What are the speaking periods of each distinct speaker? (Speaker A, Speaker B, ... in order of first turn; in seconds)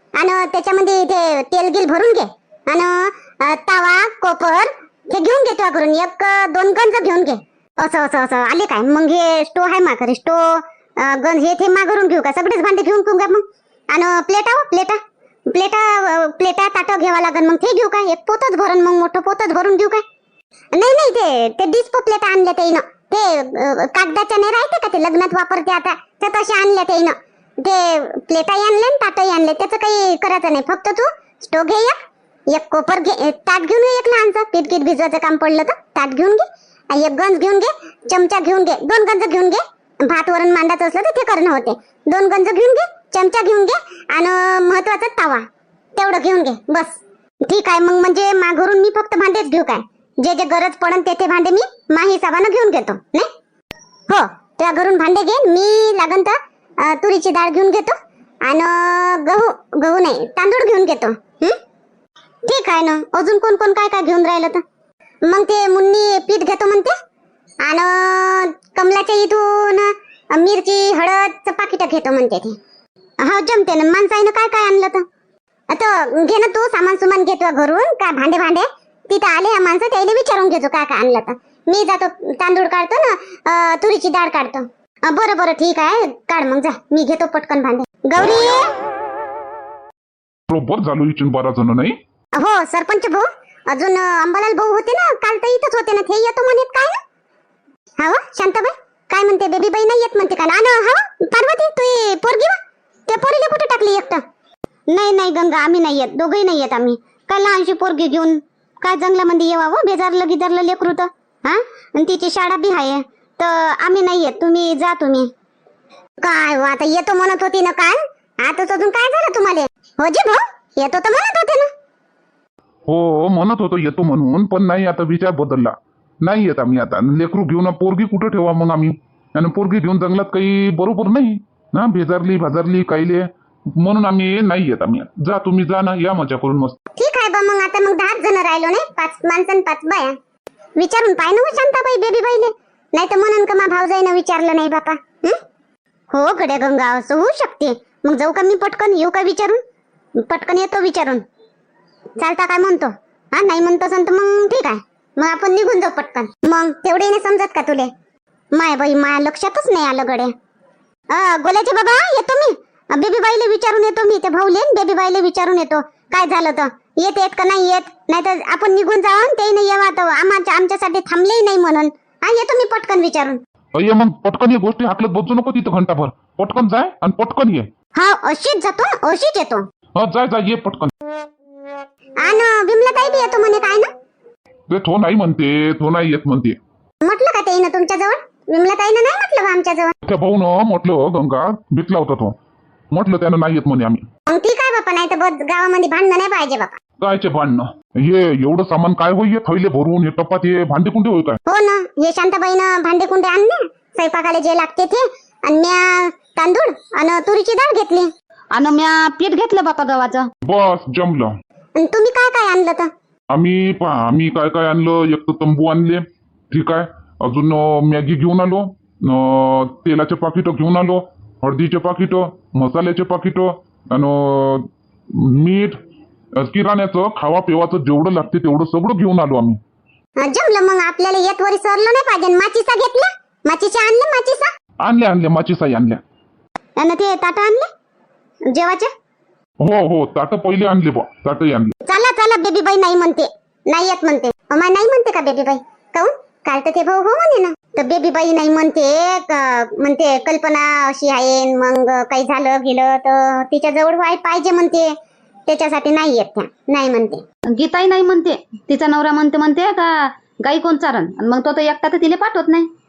Speaker A: 0.1-15.0, 15.5-20.0, 20.7-32.0, 32.5-45.4, 46.0-53.3, 54.1-61.6, 62.4-64.6, 65.3-66.9, 67.6-72.5, 73.2-75.0, 75.7-88.7, 92.3-97.0, 98.0-104.2, 104.9-115.3, 116.2-121.7, 137.0-140.1, 140.8-145.4, 146.1-149.6, 150.2-151.2, 152.2-157.9, 158.5-160.3, 161.1-173.4, 177.9-179.6, 182.2-183.9, 187.0-189.9, 194.3-196.8, 201.5-208.1, 211.8-212.9, 230.2-234.5, 236.8-237.7, 238.5-238.9, 241.9-254.9, 255.5-257.2
Speaker B: 90.5-91.9, 122.9-136.7, 173.7-177.7, 179.9-180.9, 184.7-186.6, 190.0-192.3, 192.9-194.0, 197.0-201.4, 210.4-211.3, 213.3-225.8, 226.4-229.6, 234.8-236.0, 239.6-241.7
Speaker C: 208.5-210.3, 257.5-262.7